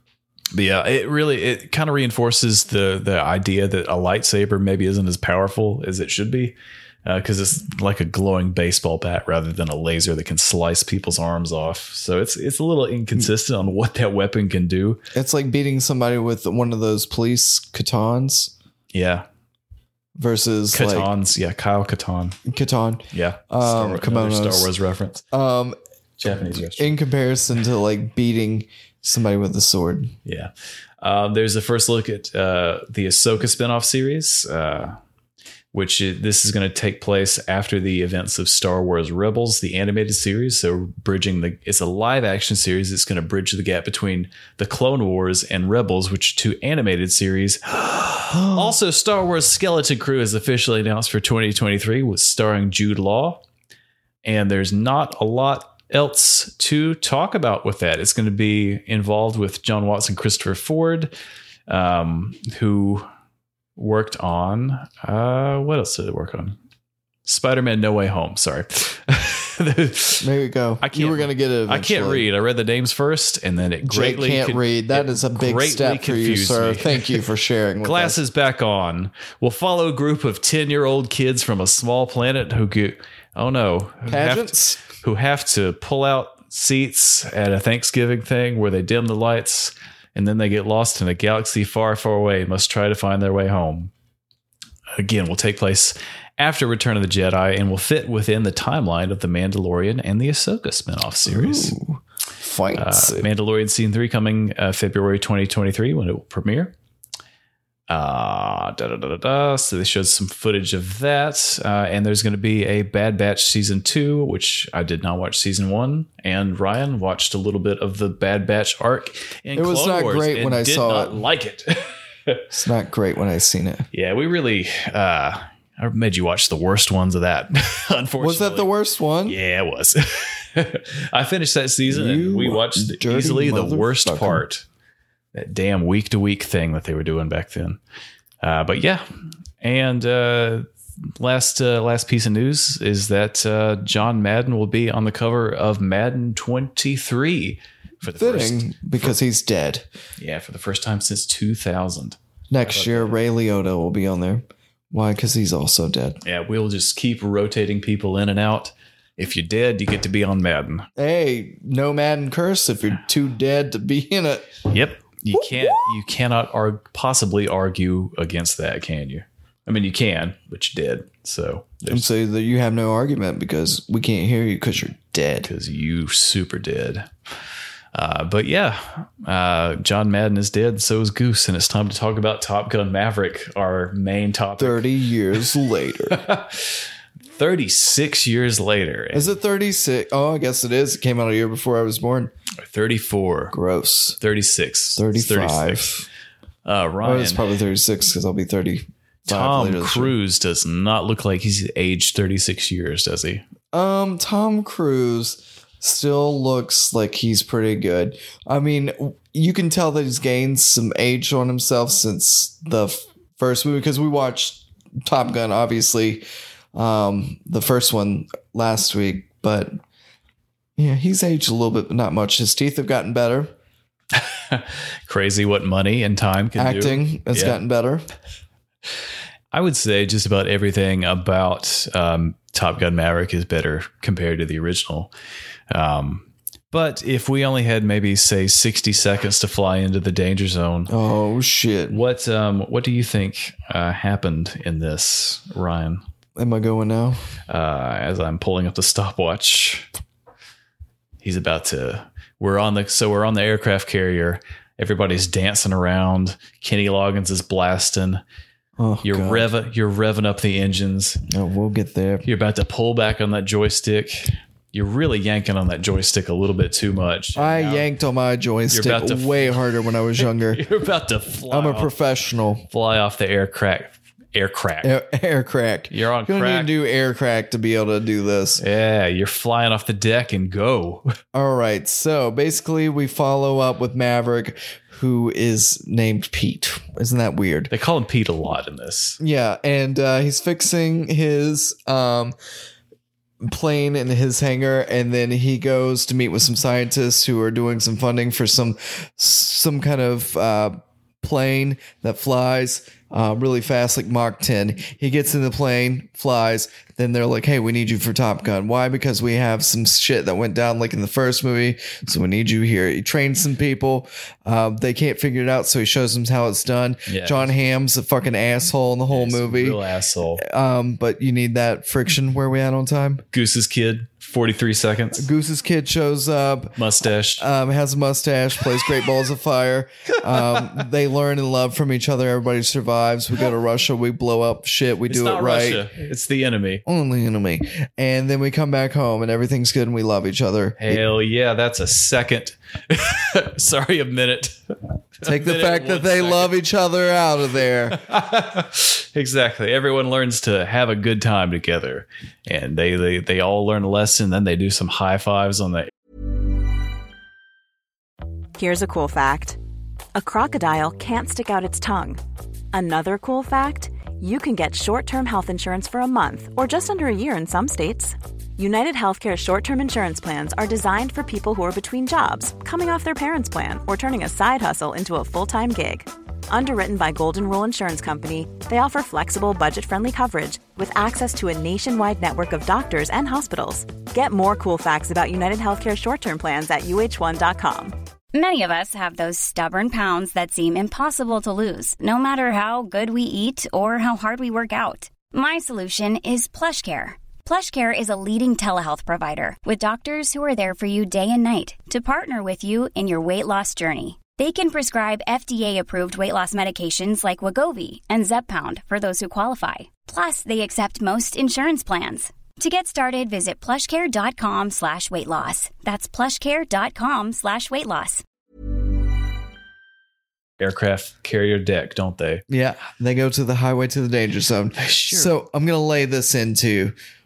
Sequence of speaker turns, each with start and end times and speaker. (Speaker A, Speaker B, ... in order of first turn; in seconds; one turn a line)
Speaker A: 0.5-15.0
Speaker B: 15.1-18.5
Speaker A: 18.9-19.3
Speaker B: 20.2-21.1
Speaker A: 20.7-22.4
Speaker B: 22.5-24.7
Speaker A: 23.1-25.2
Speaker B: 25.3-25.8
Speaker A: 26.2-27.0
Speaker B: 26.5-30.1
Speaker A: 30.3-35.0
Speaker A: 35.7-53.4
Speaker A: 54.2-61.1
Speaker A: 61.7-63.1
Speaker A: 63.8-66.6
Speaker A: 67.3-70.3
Speaker B: 70.2-72.3
Speaker A: 70.8-77.2
Speaker B: 73.8-78.2
Speaker A: 77.8-93.9
Speaker B: 84.1-84.8
Speaker A: 95.0-101.8
Speaker B: 101.2-103.3
Speaker A: 102.8-106.7
Speaker A: 107.9-122.4
Speaker B: 119.5-121.2
Speaker B: 122.5-123.9
Speaker A: 123.9-128.7
Speaker B: 128.2-129.4
Speaker A: 129.3-134.7
Speaker B: 131.9-134.4
Speaker A: 135.3-137.8
Speaker A: 138.4-139.1
Speaker A: 139.6-149.2
Speaker B: 148.1-149.9
Speaker A: 150.2-153.1
Speaker B: 152.5-156.2
Speaker A: 156.2-160.9
Speaker B: 161.0-164.5
Speaker A: 164.7-172.1
Speaker B: 171.8-175.5
Speaker A: 175.4-177.1
Speaker A: 177.9-184.8
Speaker B: 184.6-186.2
Speaker A: 186.1-189.4
Speaker B: 189.1-192.3
Speaker A: 192.6-193.6
Speaker B: 193.5-194.2
Speaker A: 194.2-195.9
Speaker B: 195.0-196.1
Speaker A: 196.7-197.4
Speaker B: 197.0-200.2
Speaker A: 199.3-203.4
Speaker B: 203.7-219.8
Speaker B: 220.8-223.5
Speaker A: 224.1-227.6
Speaker B: 226.6-228.0
Speaker A: 229.5-235.1
Speaker A: 235.7-240.9
Speaker B: 240.9-242.0
Speaker A: 241.9-246.0
Speaker B: 246.4-247.2
Speaker A: 247.5-249.9
Speaker A: 251.2-258.2
Speaker B: 258.8-259.5
Speaker A: 259.0-261.2
Speaker B: 261.3-262.3
Speaker A: 262.2-267.9
Speaker B: 267.4-270.6
Speaker A: 268.7-269.6
Speaker A: 270.2-271.9
Speaker B: 271.5-272.6
Speaker A: 272.7-274.9
Speaker B: 274.8-278.6
Speaker A: 275.9-276.7
Speaker A: 278.6-281.1
Speaker B: 281.3-287.7
Speaker A: 287.7-289.2
Speaker B: 289.2-292.4
Speaker B: 293.4-319.8
Speaker A: 317.1-317.5
Speaker A: 319.1-320.4
Speaker B: 320.4-323.2
Speaker A: 323.3-325.3
Speaker B: 325.2-326.8
Speaker A: 326.8-327.4
Speaker B: 327.4-335.9
Speaker A: 335.1-336.8
Speaker B: 336.9-341.0
Speaker A: 340.8-346.6
Speaker B: 345.2-348.0
Speaker A: 347.9-355.9
Speaker C: 358.6-359.6
Speaker C: 360.1-362.2
Speaker C: 362.7-387.9
Speaker D: 388.3-418.2
Speaker A: 420.6-422.4
Speaker B: 422.5-426.9
Speaker A: 424.8-425.3